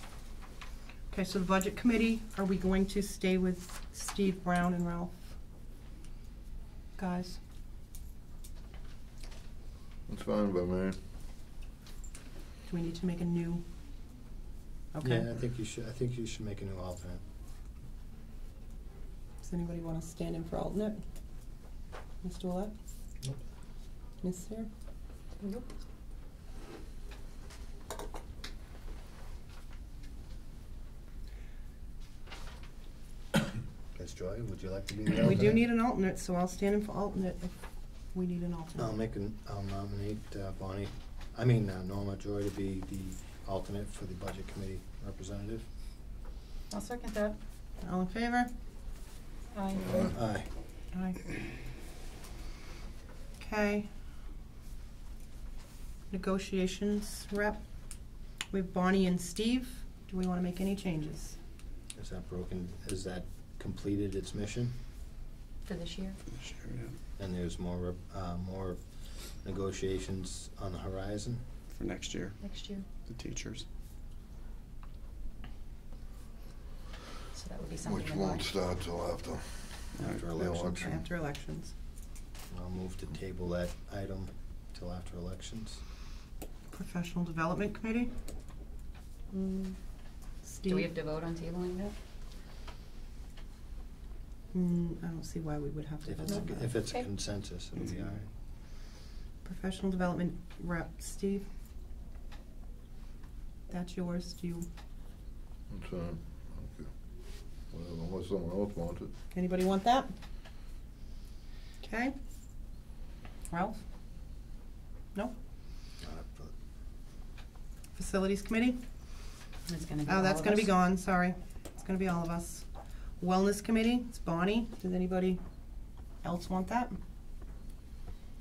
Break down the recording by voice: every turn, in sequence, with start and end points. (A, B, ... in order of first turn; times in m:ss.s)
0:01.1-0:05.3 A
0:07.0-0:07.4 A
0:10.1-0:11.0 B
0:12.7-0:13.6 A
0:14.9-0:15.2 A
0:15.0-0:17.2 C
0:19.4-0:21.0 A
0:22.2-0:22.7 A
0:24.2-0:24.7 A
0:25.4-0:25.7 D
0:34.0-0:35.7 C
0:35.2-0:37.5 A
0:38.1-0:38.9 A
0:38.8-0:45.7 C
0:46.7-0:47.4 D
0:47.8-0:48.5 A
0:49.5-0:50.1 D
0:49.9-0:50.5 C
0:50.9-0:51.2 A
0:53.4-0:53.9 A
0:56.1-0:57.6 A
0:58.5-1:01.4 A
1:02.0-1:04.7 C
1:05.7-1:06.2 D
1:06.3-1:07.0 E
1:07.2-1:08.8 C
1:09.4-1:11.4 C
1:11.7-1:12.4 E
1:12.4-1:12.9 D
1:13.0-1:13.7 E
1:17.3-1:18.5 D
1:17.8-1:20.8 B
1:20.0-1:21.0 C
1:20.0-1:20.4 E
1:20.7-1:21.7 A
1:22.5-1:25.8 C
1:26.7-1:28.1 A
1:29.3-1:29.8 D
1:30.5-1:30.9 A
1:30.6-1:32.0 D
1:34.5-1:36.7 A
1:36.1-1:38.3 C
1:36.3-1:37.1 D
1:39.4-1:41.4 A
1:43.7-1:44.7 A
1:45.7-1:46.9 B
1:47.7-1:49.1 B
1:49.3-1:50.1 A
1:51.8-1:52.1 A
1:53.5-1:53.8 A
1:56.0-1:56.5 C
1:58.0-1:58.8 A
1:59.7-2:00.7 D
2:00.1-2:02.7 A
2:03.2-2:05.4 A
2:06.2-2:07.0 A